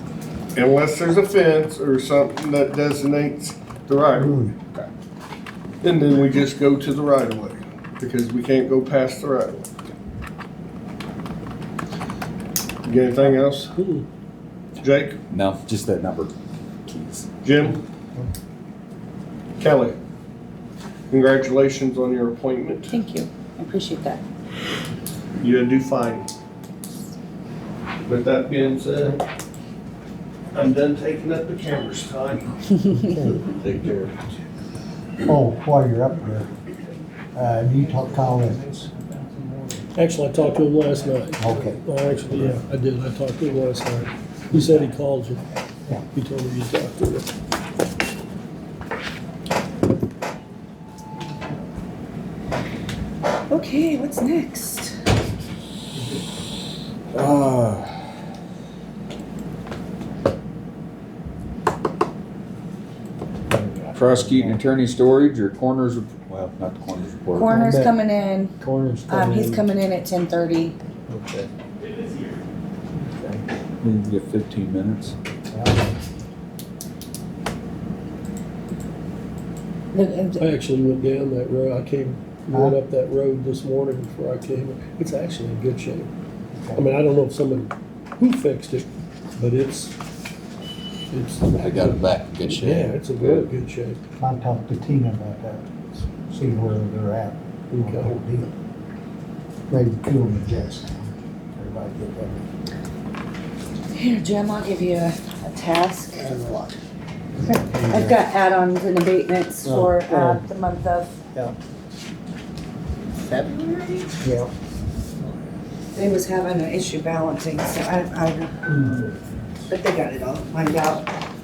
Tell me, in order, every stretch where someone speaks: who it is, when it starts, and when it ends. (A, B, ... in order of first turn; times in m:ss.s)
0:00.6-0:04.4 A
0:04.2-0:04.5 B
0:05.8-0:09.7 A
0:12.8-0:13.7 A
0:13.7-0:14.0 C
0:14.8-0:15.2 A
0:15.3-0:16.3 D
0:16.9-0:17.3 D
0:17.4-0:17.8 A
0:19.6-0:20.0 A
0:21.1-0:23.0 A
0:22.9-0:24.2 E
0:25.4-0:26.3 A
0:28.1-0:29.2 A
0:30.5-0:32.6 A
0:32.9-0:33.5 B
0:33.4-0:34.2 A
0:35.2-0:36.5 B
0:37.3-0:38.9 B
0:40.0-0:45.4 C
0:41.4-0:41.8 B
0:46.1-0:47.3 C
0:53.5-0:55.0 E
0:57.1-0:58.1 D
1:03.5-1:04.6 B
1:04.0-1:07.6 D
1:07.3-1:08.5 E
1:07.5-1:08.0 B
1:08.6-1:09.6 B
1:09.1-1:10.8 E
1:11.1-1:11.5 B
1:13.0-1:13.5 B
1:13.8-1:15.2 D
1:15.5-1:16.0 B
1:19.9-1:20.4 E
1:20.4-1:26.1 C
1:22.5-1:22.8 B
1:26.5-1:26.9 B
1:26.8-1:30.0 C
1:31.1-1:34.0 C
1:31.5-1:33.5 D
1:34.2-1:38.5 B
1:37.7-1:38.2 C
1:39.7-1:42.4 B
1:44.0-1:46.7 E
1:47.4-1:51.1 E
1:47.6-1:48.2 B
1:49.6-1:50.4 B
1:53.3-1:54.1 E
1:54.2-1:54.5 B
1:55.9-1:58.8 E
1:58.7-1:59.1 B
1:59.7-2:01.1 E